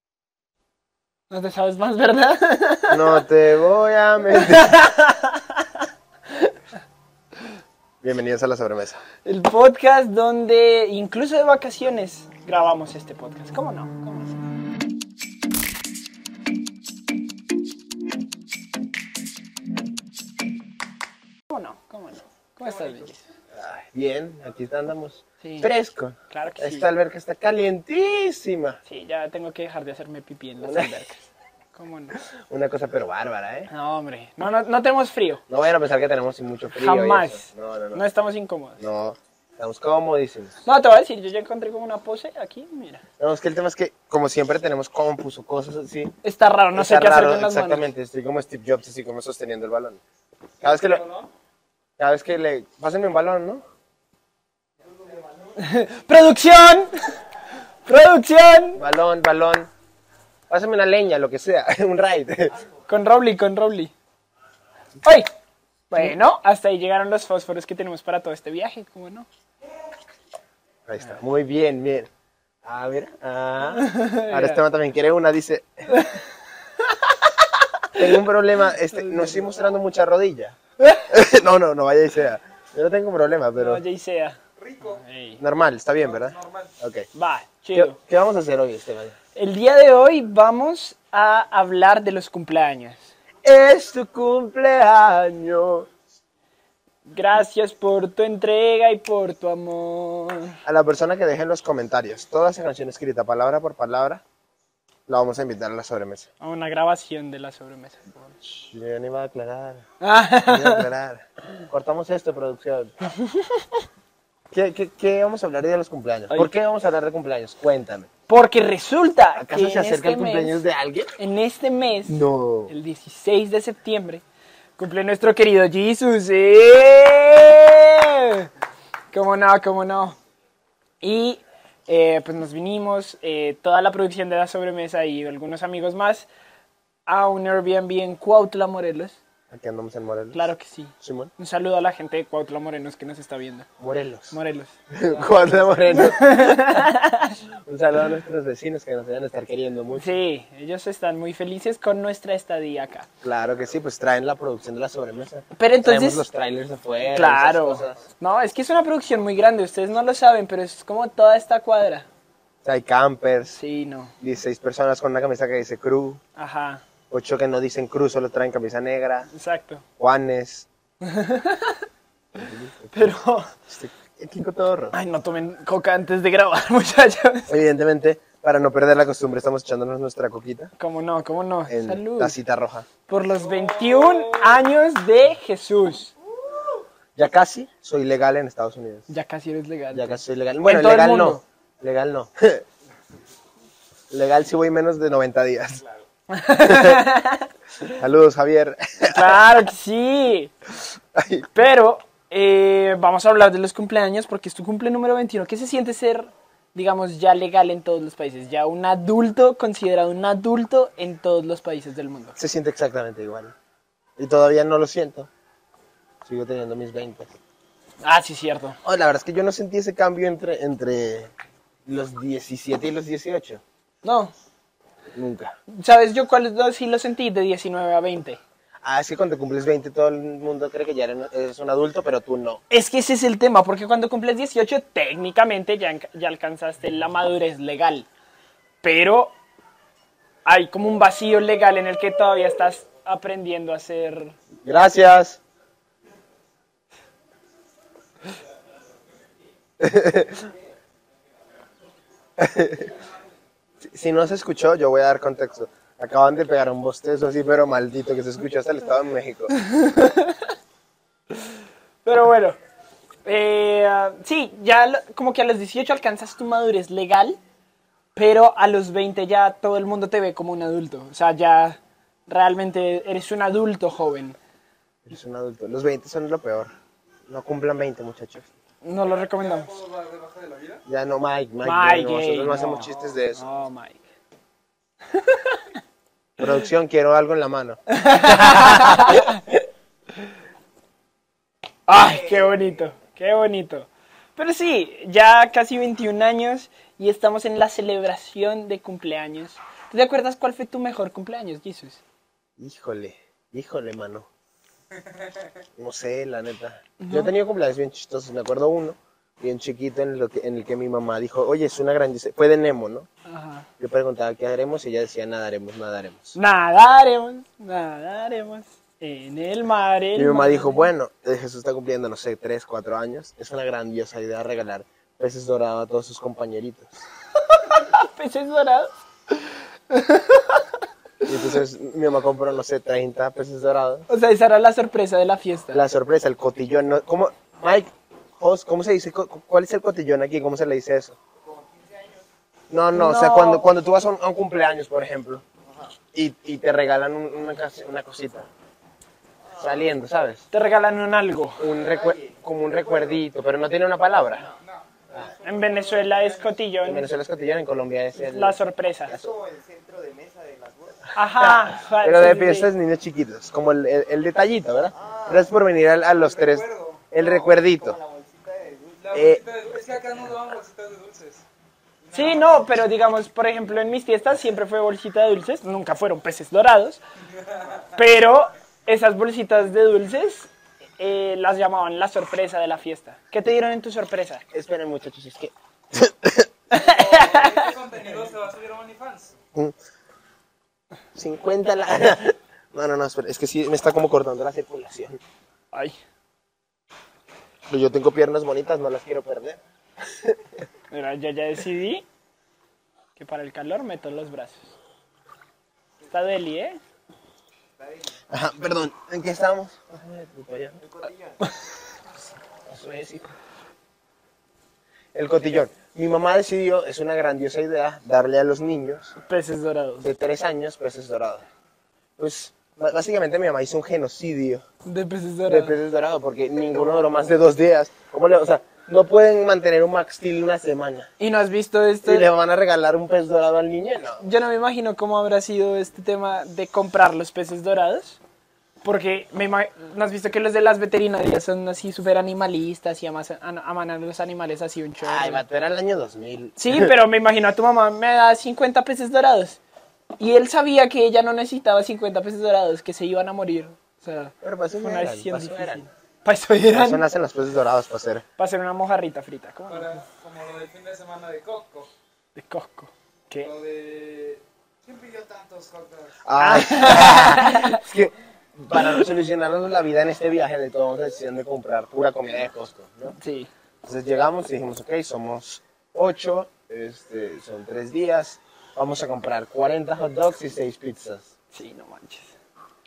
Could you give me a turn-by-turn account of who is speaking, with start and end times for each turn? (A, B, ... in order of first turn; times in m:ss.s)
0:01.3-0:03.2 A
0:02.9-0:04.8 B
0:04.3-0:05.7 A
0:08.0-0:09.0 B
0:09.2-0:14.4 A
0:21.5-0:23.3 A
0:23.5-0:28.8 B
0:25.4-0:25.7 A
0:26.3-0:26.9 A
0:28.9-0:32.2 A
0:30.6-0:31.0 B
0:32.5-0:33.7 B
0:33.7-0:35.4 A
0:35.5-0:38.0 B
0:36.7-0:38.8 A
0:38.8-0:40.6 B
0:40.6-0:43.0 A
0:43.2-0:46.2 B
0:46.2-0:47.9 A
0:46.7-0:50.0 B
0:50.6-0:51.1 B
0:52.0-0:53.6 B
0:55.6-0:57.2 A
0:57.8-0:58.8 A
0:58.8-0:59.7 B
1:00.5-1:02.6 B
1:02.9-1:03.9 A
1:05.0-1:05.3 A
1:05.9-1:09.3 A
1:10.9-1:12.1 B
1:12.6-1:16.0 B
1:13.8-1:14.6 A
1:15.9-1:16.2 A
1:16.8-1:18.1 A
1:17.9-1:23.8 B
1:18.9-1:19.4 A
1:23.6-1:25.4 A
1:24.6-1:25.0 C
1:25.4-1:27.1 B
1:26.0-1:26.7 C
1:27.1-1:28.0 A
1:27.7-1:29.2 B
1:29.4-1:33.1 A
1:33.4-1:35.9 B
1:37.1-1:40.6 A
1:40.6-1:44.2 B
1:45.1-1:46.3 B
1:46.4-1:48.0 A
1:48.4-1:49.9 B
1:50.0-1:50.9 A
1:50.4-1:53.0 B
1:54.5-1:58.1 B
1:58.3-2:00.6 A
1:59.4-2:01.2 B
2:01.2-2:04.2 A
2:02.1-2:02.7 B
2:04.8-2:08.5 A
2:09.1-2:10.2 A
2:11.0-2:16.3 A
2:17.1-2:19.2 A
2:19.5-2:20.5 B
2:20.3-2:23.7 A
2:21.0-2:21.3 B
2:23.8-2:24.4 B
2:24.3-2:24.7 A
2:24.9-2:26.9 B
2:25.9-2:27.4 A
2:27.6-2:30.1 B
2:29.9-2:33.1 A
2:33.2-2:38.1 B
2:35.6-2:36.3 A
2:37.0-2:42.1 A
2:42.6-2:43.6 B
2:43.6-2:44.1 A
2:44.2-2:46.2 B
2:46.4-2:46.8 A
2:47.1-2:49.3 B
2:49.3-2:49.8 A
2:50.0-2:50.7 B
2:51.0-2:51.9 A
2:52.4-2:55.0 B
2:52.9-2:53.5 A
2:54.9-2:57.5 A
2:57.5-3:00.7 B
3:00.8-3:02.4 A
3:01.7-3:02.9 B
3:03.1-3:06.1 A
3:03.4-3:04.6 C
3:07.2-3:09.1 B
3:09.1-3:11.4 A
3:09.9-3:12.7 B
3:14.1-3:15.8 B
3:16.3-3:17.5 A
3:16.6-3:17.0 B
3:17.8-3:19.4 B
3:19.1-3:20.5 A
3:21.2-3:21.5 B
3:21.5-3:32.4 A
3:32.4-3:33.5 B
3:34.2-3:35.3 B
3:36.2-3:37.3 B
3:38.0-3:38.8 A
3:38.8-3:41.3 B
3:41.9-3:43.6 B
3:44.0-3:44.3 A
3:45.1-3:45.6 B
3:45.7-3:48.4 A
3:48.8-3:52.6 B
3:52.7-3:58.1 A
3:58.8-3:59.4 A
4:00.4-4:04.4 A
4:04.6-4:05.4 B
4:09.8-4:10.5 B
4:12.4-4:12.9 B
4:13.8-4:19.6 B
4:19.6-4:20.5 A
4:22.0-4:22.6 A
4:23.2-4:27.4 A
4:28.2-4:34.4 A
4:35.1-4:36.7 B
4:37.3-4:38.5 B
4:38.8-4:39.7 A
4:39.2-4:40.8 C
4:40.9-4:43.4 B
4:41.6-4:44.0 A
4:45.1-4:45.8 A
4:46.4-4:49.4 B
4:47.9-4:49.4 A
4:51.9-5:02.0 A
5:02.6-5:04.3 B
5:05.8-5:13.1 B
5:07.0-5:07.3 A
5:13.2-5:13.7 A
5:13.8-5:16.4 B
5:16.4-5:20.9 A
5:20.1-5:27.0 B
5:27.4-5:31.4 A
5:31.2-5:34.1 B
5:34.1-5:35.8 A
5:35.7-5:41.2 B
5:42.7-5:45.4 B
5:42.9-5:43.7 A
5:46.1-5:48.5 B
5:49.6-5:50.5 B
5:50.5-5:51.7 A
5:51.6-5:54.5 B
5:55.4-5:57.1 A
5:55.4-5:56.2 C
5:56.8-5:58.6 B
5:58.2-5:59.1 A
5:59.2-6:01.0 D
6:01.2-6:02.7 A
6:01.3-6:08.0 B
6:06.2-6:07.1 C
6:08.0-6:08.9 D
6:09.0-6:11.4 C
6:09.1-6:09.4 B
6:12.1-6:12.6 C
6:12.1-6:17.0 A
6:18.0-6:24.4 A
6:24.5-6:26.5 B
6:26.7-6:27.7 A
6:26.7-6:29.3 C
6:31.2-6:35.2 B
6:35.7-6:36.0 A
6:37.7-6:39.6 B
6:40.1-6:40.4 B
6:40.9-6:42.1 A
6:43.2-6:44.7 A
6:46.1-6:46.8 A
6:48.3-6:50.8 B
6:52.7-6:53.3 B
6:55.1-6:59.2 B
6:59.3-7:00.1 A
7:00.0-7:01.5 B
7:02.2-7:04.6 B
7:04.8-7:05.8 A
7:05.5-7:11.1 B
7:11.2-7:12.3 A
7:12.0-7:14.2 B
7:14.2-7:18.2 A
7:18.8-7:25.4 A
7:25.0-7:26.9 B
7:26.6-7:29.6 A
7:30.2-7:37.0 A
7:34.4-7:35.8 B
7:36.7-7:38.2 B
7:38.4-7:40.0 A
7:39.7-7:41.9 C
7:42.4-7:43.5 A
7:43.4-7:46.2 C
7:46.2-7:53.2 B
7:46.4-7:47.8 A
7:53.2-7:53.5 A
7:53.8-8:01.3 B
8:01.5-8:02.3 A